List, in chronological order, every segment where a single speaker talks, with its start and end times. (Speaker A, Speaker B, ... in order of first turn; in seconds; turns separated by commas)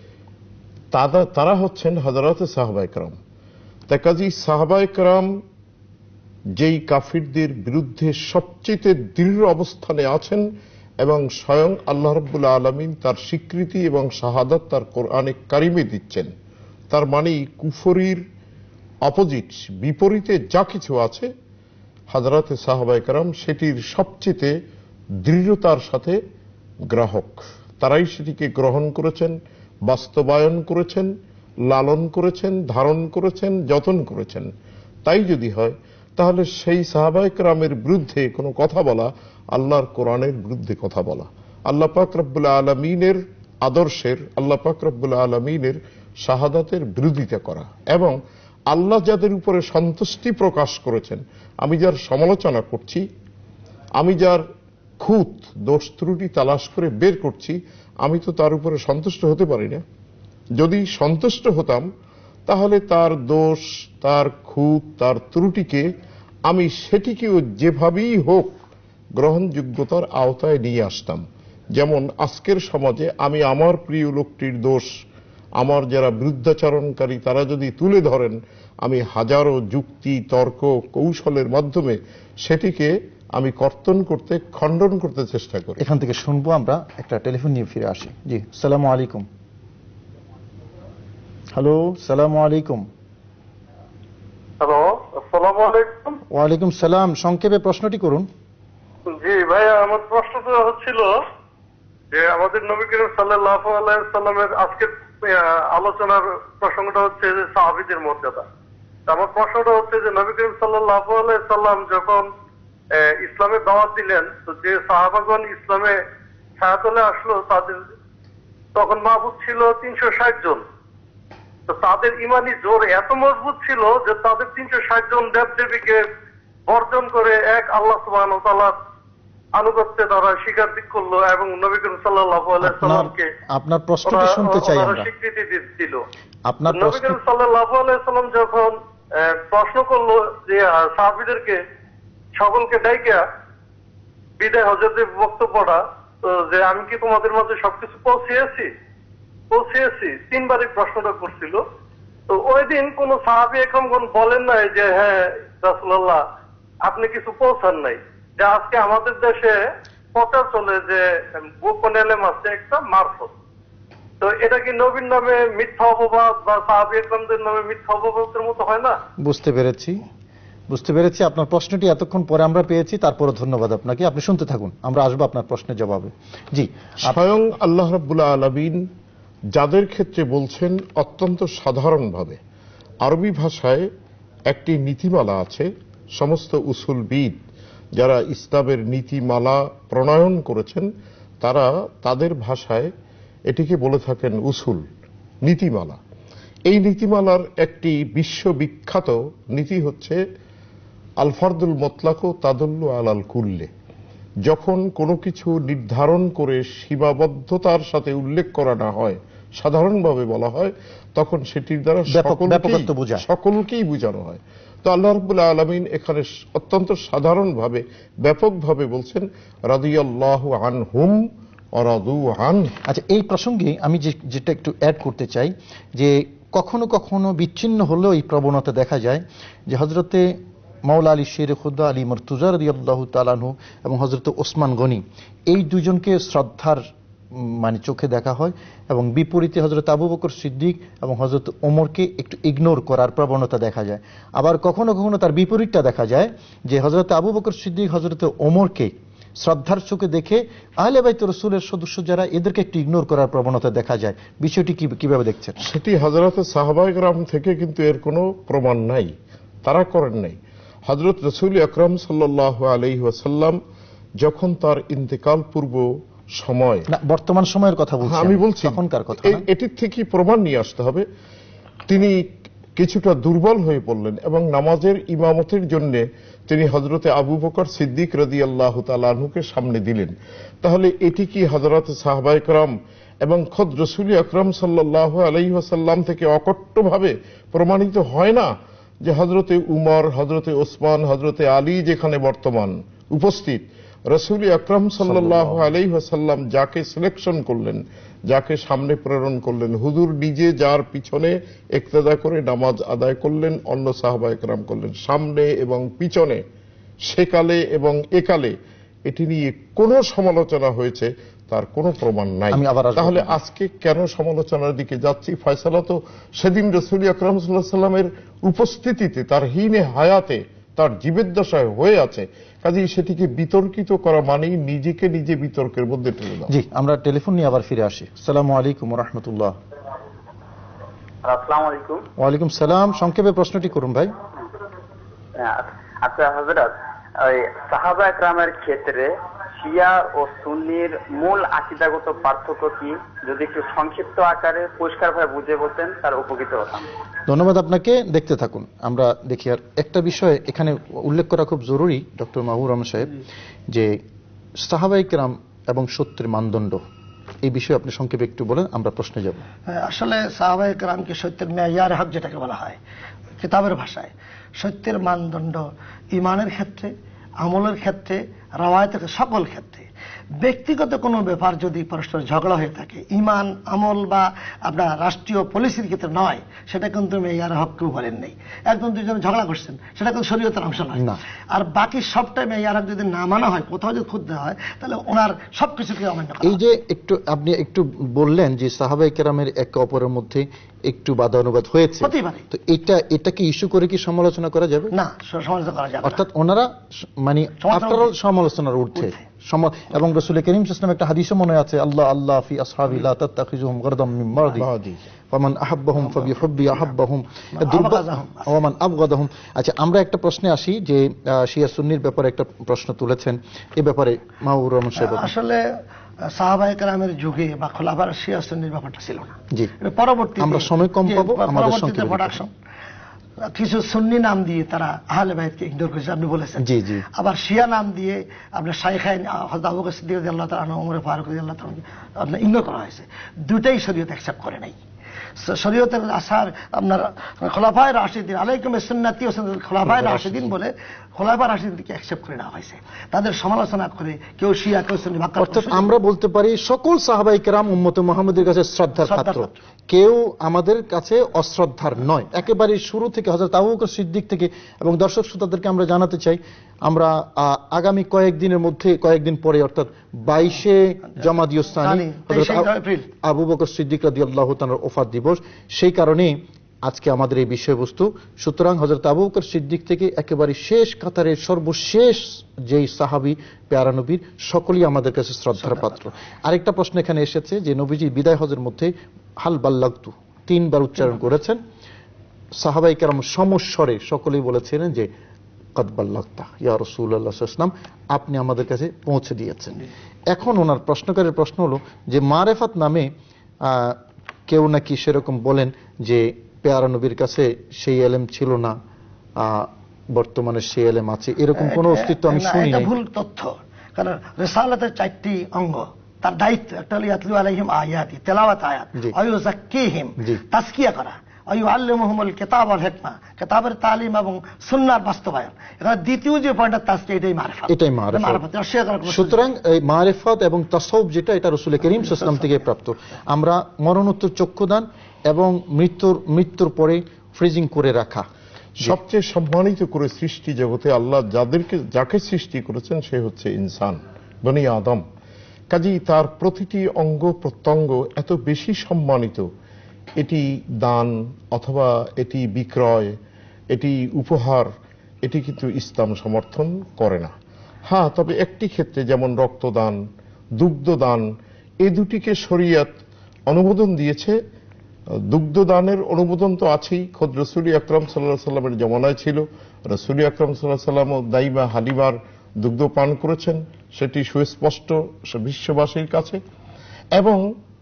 Speaker A: 0.9-3.1, Speaker A: 3.9-5.3, Speaker A: 6.6-10.4, Speaker A: 11.0-16.3, Speaker A: 16.9-18.2, Speaker A: 19.0-21.3, Speaker A: 22.1-24.5, Speaker A: 25.2-26.2, Speaker A: 26.9-31.1, Speaker A: 31.7-34.5, Speaker A: 35.0-48.1, Speaker A: 48.7-53.0, Speaker A: 54.0-54.4, Speaker A: 55.0-59.8, Speaker A: 60.6-61.9, Speaker A: 62.5-65.9, Speaker A: 66.5-68.5, Speaker A: 69.2-71.2, Speaker A: 71.7-74.9, Speaker A: 75.6-85.8, Speaker B: 85.8-89.2, Speaker B: 91.5-92.9, Speaker C: 94.6-96.2, Speaker B: 96.3-98.3, Speaker C: 99.1-101.2, Speaker C: 102.1-108.4, Speaker C: 109.1-112.3, Speaker C: 112.9-116.0, Speaker C: 116.6-117.8, Speaker C: 118.7-120.6, Speaker C: 121.7-126.0, Speaker C: 126.7-128.8, Speaker C: 129.6-133.3, Speaker B: 132.6-135.1, Speaker C: 134.0-136.0, Speaker B: 136.5-137.2, Speaker C: 136.7-141.6, Speaker C: 142.3-143.2, Speaker C: 144.4-148.7, Speaker C: 149.5-151.6, Speaker C: 152.3-156.2, Speaker C: 156.8-159.6, Speaker C: 160.1-163.3, Speaker C: 164.2-169.0, Speaker B: 169.2-170.0, Speaker B: 170.7-177.2, Speaker A: 177.0-178.8, Speaker A: 179.5-182.4, Speaker A: 183.0-183.9, Speaker A: 184.5-187.3, Speaker A: 187.9-190.9, Speaker A: 191.4-192.9, Speaker A: 193.5-194.8, Speaker A: 195.4-196.0, Speaker A: 196.7-200.2, Speaker A: 201.2-203.7, Speaker A: 204.4-222.7, Speaker B: 212.1-213.2, Speaker B: 222.9-230.3, Speaker B: 230.8-236.8, Speaker B: 237.3-255.6, Speaker A: 255.6-259.1, Speaker A: 259.6-263.6, Speaker A: 264.2-266.9, Speaker B: 266.9-269.4, Speaker A: 268.0-271.0, Speaker A: 271.9-272.2, Speaker A: 272.8-288.5, Speaker A: 289.0-306.4, Speaker B: 295.0-295.7, Speaker A: 307.0-308.5, Speaker A: 309.1-326.5, Speaker B: 312.5-313.4, Speaker B: 326.5-329.6, Speaker D: 331.2-332.0, Speaker B: 332.2-334.1, Speaker D: 335.4-346.9, Speaker B: 347.3-353.2, Speaker B: 353.7-354.0, Speaker B: 354.6-356.8, Speaker B: 357.4-359.4, Speaker E: 359.7-362.8, Speaker E: 363.4-366.9, Speaker E: 367.4-369.9, Speaker E: 370.4-386.6, Speaker B: 386.4-394.9, Speaker E: 392.0-392.4, Speaker E: 394.9-396.2, Speaker B: 396.0-404.7, Speaker E: 397.6-398.1, Speaker A: 404.6-405.0, Speaker B: 405.3-415.3, Speaker E: 407.6-408.5, Speaker E: 415.0-415.6, Speaker E: 416.3-422.5, Speaker B: 420.4-422.4, Speaker E: 423.5-434.8, Speaker B: 426.6-427.0, Speaker E: 435.4-445.9, Speaker B: 439.8-440.5, Speaker B: 445.4-462.7, Speaker E: 449.0-449.5, Speaker E: 461.8-463.1, Speaker B: 463.2-481.6, Speaker B: 482.5-485.1, Speaker B: 485.8-493.1, Speaker B: 493.6-498.8, Speaker B: 499.4-502.9, Speaker E: 501.6-519.4, Speaker B: 517.7-518.4, Speaker B: 519.1-528.2, Speaker A: 528.8-535.0, Speaker A: 535.7-539.5, Speaker A: 540.2-543.1, Speaker A: 543.7-544.7, Speaker A: 545.2-547.3, Speaker A: 547.9-550.0, Speaker A: 550.6-551.3, Speaker A: 551.8-552.9, Speaker A: 553.5-554.4, Speaker A: 555.3-566.4, Speaker A: 567.1-567.5